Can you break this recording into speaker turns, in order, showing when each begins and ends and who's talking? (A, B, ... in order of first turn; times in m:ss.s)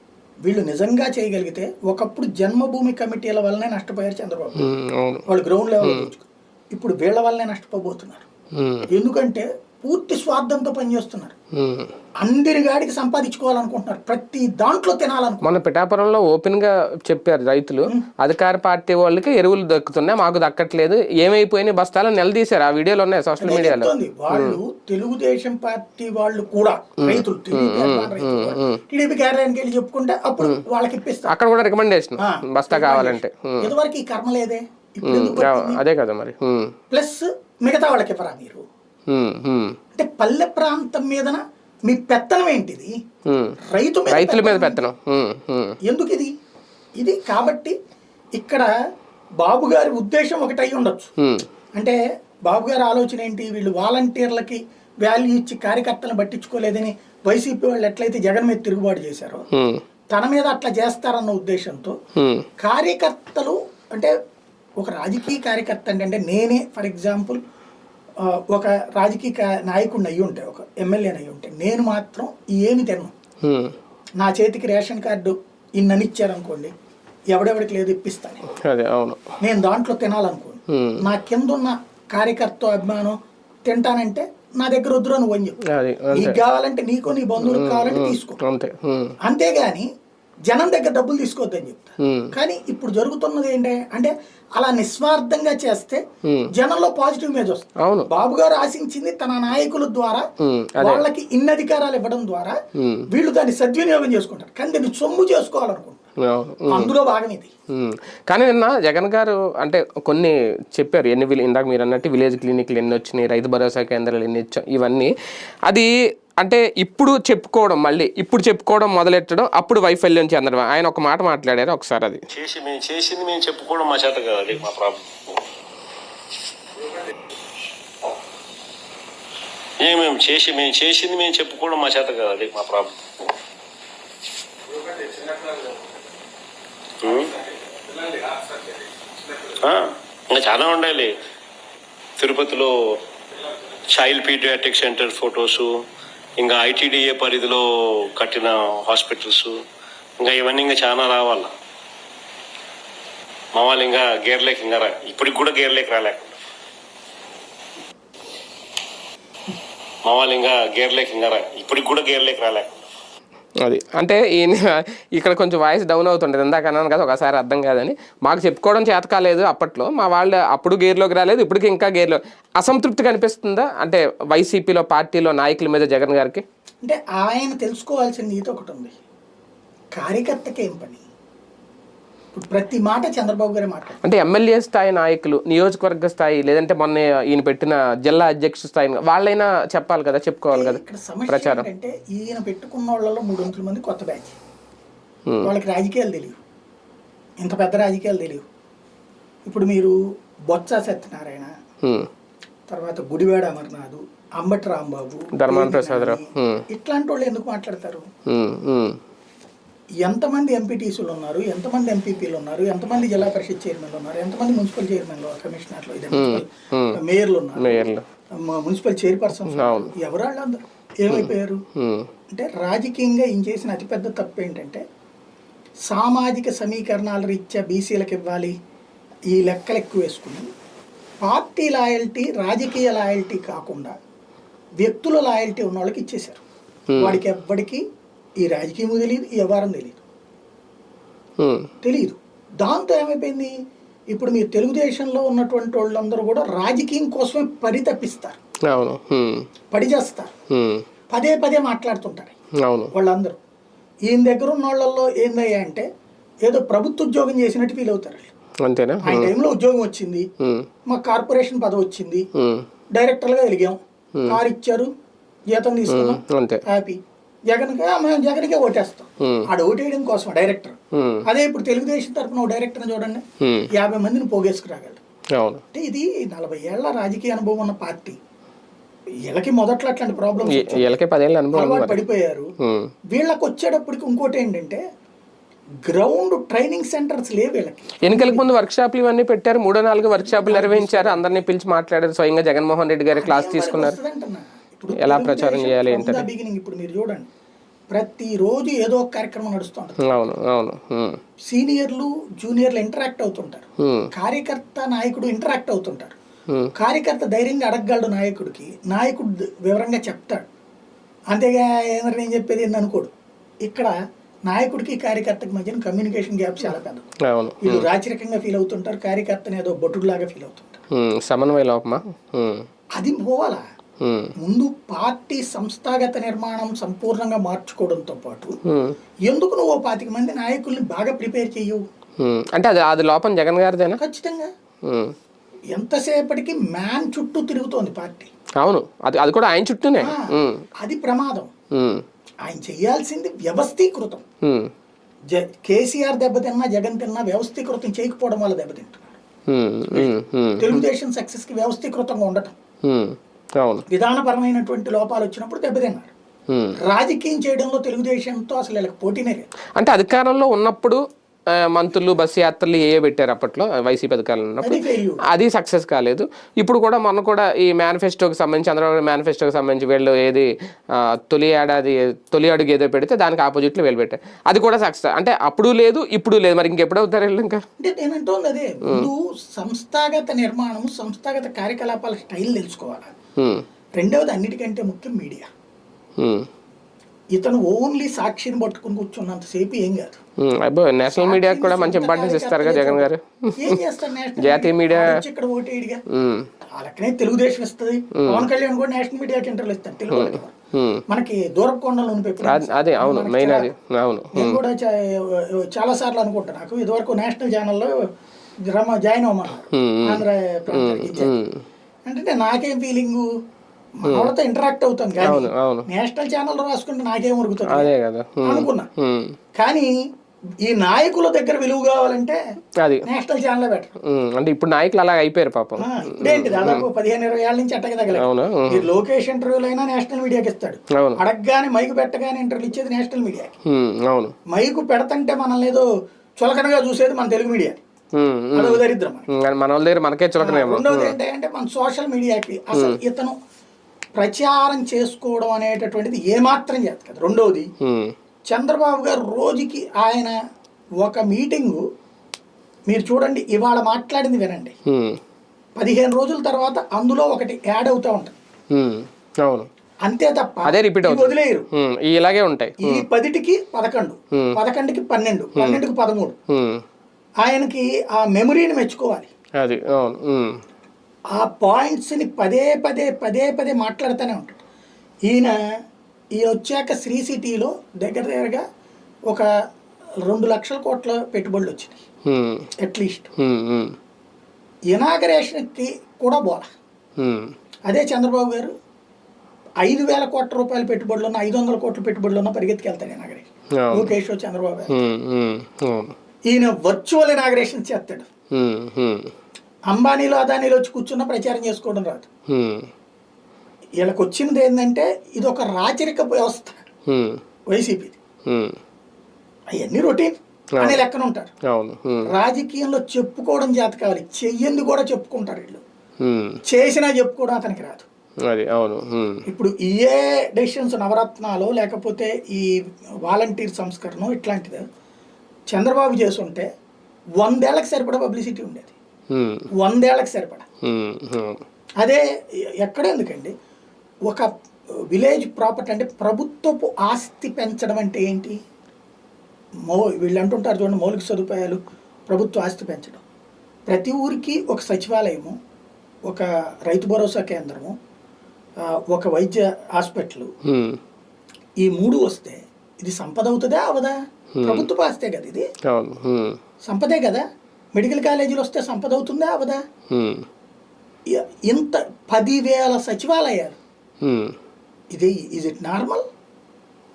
0:00.4-0:04.7 A
0:04.6-0:05.2 B
0:05.3-0:08.3 A
0:05.8-0:06.1 B
0:08.5-0:08.9 B
0:08.9-0:11.4 A
0:11.5-0:11.9 B
0:12.2-0:15.4 A
0:15.4-0:24.6 B
0:23.4-0:31.3 A
0:27.0-0:28.8 B
0:31.3-0:33.7 B
0:32.2-0:35.8 A
0:35.0-0:36.8 B
0:36.9-0:38.6 A
0:39.1-0:39.8 B
0:39.9-0:42.9 A
0:43.3-0:43.6 B
0:43.7-0:44.8 A
0:44.1-0:45.8 B
0:45.8-0:46.3 A
0:47.0-0:47.8 A
0:48.4-0:48.7 A
0:49.4-0:51.1 A
0:51.2-0:51.5 B
0:51.8-0:59.4 A
0:59.5-0:59.8 B
1:00.1-1:02.0 A
1:02.2-1:02.5 B
1:02.6-1:04.1 A
1:04.8-1:07.4 A
1:08.2-1:13.1 A
1:13.4-1:13.8 B
1:14.2-1:16.7 A
1:17.3-1:18.4 A
1:18.5-1:19.2 B
1:19.4-1:25.6 A
1:20.7-1:21.0 B
1:25.6-1:26.4 B
1:26.1-1:28.4 A
1:27.4-1:29.2 B
1:29.2-1:29.9 A
1:30.5-1:40.3 A
1:32.0-1:32.3 B
1:36.2-1:36.5 B
1:37.8-1:38.1 B
1:40.4-1:41.0 B
1:40.8-1:42.6 A
1:42.8-1:43.1 B
1:43.1-1:46.0 A
1:46.2-1:46.9 B
1:46.7-1:47.5 A
1:47.7-1:55.1 B
1:55.7-2:02.2 B
2:02.3-2:05.0 C
2:09.8-2:12.9 C
2:17.0-2:17.3 C
2:19.5-2:21.1 C
2:22.2-2:22.8 C
2:23.9-2:25.8 C
2:26.4-2:29.6 C
2:30.2-2:31.5 C
2:33.5-2:36.4 C
2:40.0-2:42.8 C
2:43.6-2:56.4 B
2:56.8-2:59.0 A
3:00.0-3:01.0 A
3:02.3-3:04.0 A
3:04.0-3:11.7 B
3:10.5-3:14.4 A
3:15.4-3:16.4 A
3:17.4-3:18.5 A
3:19.5-3:20.0 A
3:20.5-3:21.5 A
3:21.8-3:22.1 B
3:22.7-3:28.1 A
3:25.4-3:26.6 B
3:28.3-3:29.0 B
3:30.0-3:41.6 A
3:36.1-3:37.0 B
3:37.6-3:38.0 B
3:39.5-3:39.9 B
3:41.1-3:42.1 B
3:42.3-3:44.8 A
3:45.9-3:48.6 A
3:49.3-3:50.5 A
3:51.2-3:54.0 A
3:54.8-3:56.4 A
3:56.9-3:57.2 B
3:57.0-3:57.8 A
3:58.4-4:00.0 A
4:01.4-4:01.7 B
4:01.8-4:03.5 A
4:04.1-4:08.4 A
4:08.7-4:09.5 B
4:09.7-4:10.3 A
4:10.5-4:10.8 B
4:11.1-4:12.4 A
4:12.6-4:12.9 B
4:12.9-4:13.4 A
4:14.1-4:15.9 A
4:16.4-4:18.3 A
4:18.6-4:19.3 B
4:19.0-4:20.3 A
4:20.4-4:20.7 B
4:20.9-4:22.3 A
4:22.4-4:22.7 B
4:22.9-4:24.9 A
4:24.2-4:24.4 B
4:25.5-4:27.0 A
4:25.9-4:26.6 B
4:27.5-4:35.0 A
4:30.9-4:31.2 B
4:33.4-4:33.7 B
4:35.4-4:35.6 B
4:35.7-4:38.2 A
4:39.2-4:41.0 A
4:40.4-4:42.0 B
4:41.5-4:42.5 A
4:42.6-4:42.9 B
4:43.1-4:44.8 A
4:45.8-4:48.5 A
4:48.0-4:54.0 B
4:50.2-4:51.3 A
4:53.1-4:57.3 A
4:54.9-4:56.3 B
4:57.9-5:00.4 A
5:00.0-5:01.2 B
5:01.5-5:06.2 A
5:03.8-5:04.1 B
5:06.8-5:10.5 A
5:11.3-5:13.1 A
5:13.6-5:13.9 A
5:14.5-5:17.1 A
5:17.2-5:17.9 B
5:17.6-5:20.8 A
5:20.9-5:22.7 B
5:23.0-5:23.6 A
5:24.0-5:24.3 B
5:24.4-5:28.6 A
5:28.6-5:29.0 B
5:29.3-5:31.8 A
5:32.2-5:34.0 B
5:34.0-5:34.5 A
5:34.8-5:35.2 B
5:35.7-5:38.3 A
5:38.6-5:40.6 B
5:40.0-5:41.5 A
5:41.7-5:42.0 B
5:42.4-5:44.2 A
5:44.4-5:44.7 B
5:45.3-5:49.2 A
5:49.5-5:50.8 B
5:49.9-5:52.6 A
5:52.8-5:53.8 B
5:53.9-5:56.1 A
5:56.5-5:56.8 B
5:56.8-5:59.5 A
5:59.8-6:17.6 B
6:04.6-6:05.2 A
6:17.8-6:23.1 A
6:23.4-6:23.6 B
6:24.0-6:25.5 A
6:26.2-6:26.5 B
6:27.3-6:30.2 A
6:30.4-6:33.8 B
6:31.1-6:36.0 A
6:34.4-6:35.2 B
6:36.1-6:36.5 B
6:36.8-6:40.5 A
6:38.2-6:38.5 B
6:40.1-6:41.0 B
6:41.1-6:43.7 A
6:42.4-6:44.6 B
6:44.3-6:47.9 A
6:48.7-6:51.4 A
6:49.7-6:51.6 B
6:52.1-6:53.3 A
6:54.0-6:57.9 A
6:54.1-6:54.3 B
6:55.2-6:55.9 B
6:57.7-6:59.4 B
6:58.4-6:58.9 A
6:59.6-6:59.9 A
7:00.6-7:02.4 A
7:02.8-7:03.0 B
7:03.0-7:03.9 A
7:04.0-7:06.9 B
7:05.8-7:13.6 A
7:08.1-7:09.0 B
7:10.9-7:11.2 B
7:13.6-7:14.4 B
7:14.5-7:15.9 A
7:16.4-7:17.8 A
7:18.1-7:21.2 B
7:18.5-7:19.3 A
7:20.4-7:23.4 A
7:22.7-7:23.0 B
7:24.2-7:27.7 A
7:27.8-7:28.2 B
7:28.5-7:30.4 A
7:31.0-7:31.8 A
7:32.9-7:34.8 A
7:34.9-7:35.2 B
7:35.8-7:38.4 A
7:38.7-7:39.7 B
7:40.0-7:41.7 A
7:40.7-7:43.1 B
7:42.8-7:46.4 A
7:44.3-7:44.6 B
7:45.6-7:45.8 B
7:46.5-7:46.8 B
7:47.4-7:49.3 A
7:49.6-7:50.6 B
7:51.3-7:54.6 A
7:55.3-7:55.6 A
7:56.4-7:58.6 A
8:00.3-8:02.0 A
8:02.3-8:02.7 B
8:02.8-8:03.3 A
8:03.4-8:04.0 B
8:04.9-8:06.7 A
8:07.2-8:07.5 B
8:07.9-8:08.7 A
8:09.8-8:15.0 A
8:13.8-8:14.2 B
8:14.9-8:16.1 B
8:16.5-8:18.3 A
8:18.5-8:19.3 B
8:19.9-8:22.3 A
8:22.5-8:22.9 B
8:24.0-8:26.8 A
8:27.1-8:27.4 B
8:27.7-8:28.2 A
8:28.5-8:28.8 B
8:29.7-8:31.5 A
8:30.8-8:31.0 B
8:31.6-8:32.3 B
8:32.3-8:35.8 A
8:36.2-8:36.6 B
8:36.7-8:38.1 A
8:38.4-8:39.4 B
8:39.5-8:44.8 A
8:45.7-8:46.7 A
8:47.4-8:48.9 A
8:49.3-8:49.7 B
8:49.8-8:50.7 A
8:50.8-8:51.6 B
8:52.8-8:53.5 A
8:55.1-8:58.6 A
8:59.9-9:03.2 A
9:03.9-9:05.6 A
9:06.3-9:08.0 A
9:08.8-9:10.5 A
9:10.6-9:11.0 B
9:11.8-9:15.7 A
9:14.6-9:14.9 B
9:15.9-9:16.6 B
9:16.9-9:19.8 A
9:20.1-9:20.5 B
9:21.3-9:23.8 A
9:24.2-9:24.6 B
9:25.1-9:26.2 A